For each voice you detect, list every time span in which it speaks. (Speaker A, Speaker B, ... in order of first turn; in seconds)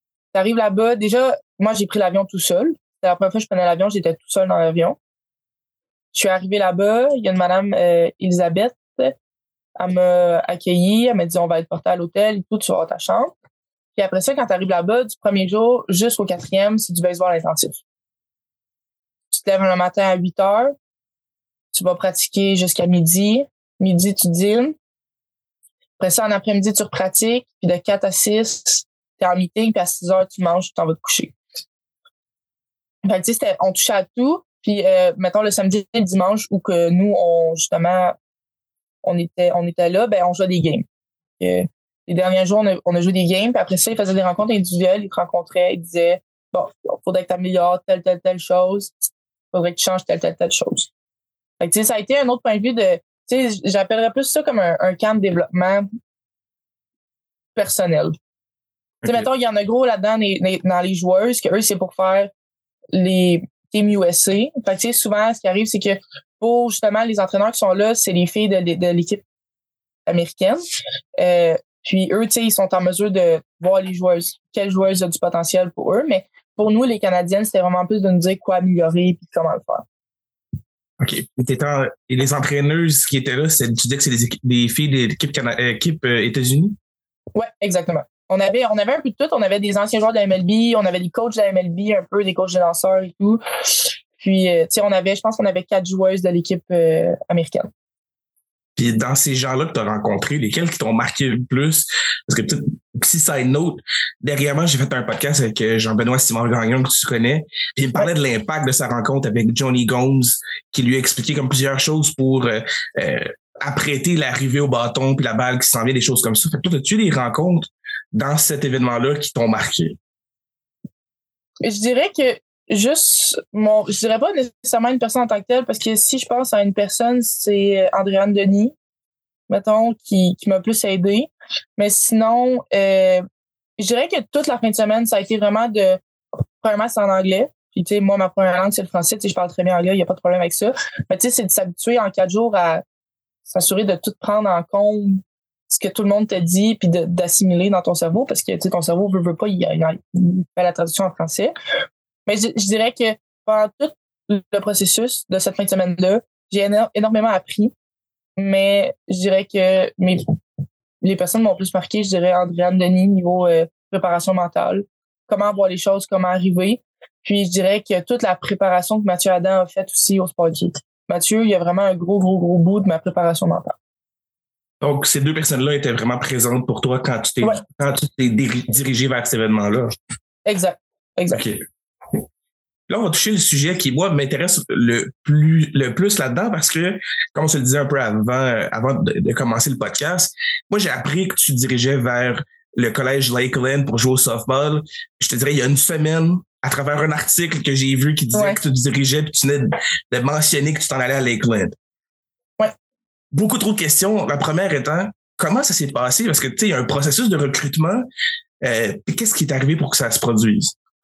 Speaker A: 0.3-5.0, 6.1-9.1, 9.8-13.3, 13.9-17.8, 19.3-20.7, 21.7-24.7, 26.0-31.4, 33.0-38.2, 39.0-40.9, 41.4-48.9, 49.5-50.9, 51.6-55.9, 57.5-58.1, 59.0-62.3, 62.9-69.2, 70.1-70.6, 71.2-79.8, 87.3-93.4, 94.2-97.7, 121.6-128.7, 129.5-133.2, 133.8-136.0, 136.6-142.8, 143.4-151.5, 152.3-157.7, 158.4-160.2, 161.0-173.8, 177.4-177.7, 180.5-181.4, 198.3-198.6
Speaker B: 81.0-86.8, 98.8-120.0, 174.8-179.9, 181.3-181.6, 182.9-201.8, 203.3-208.1, 208.6-210.8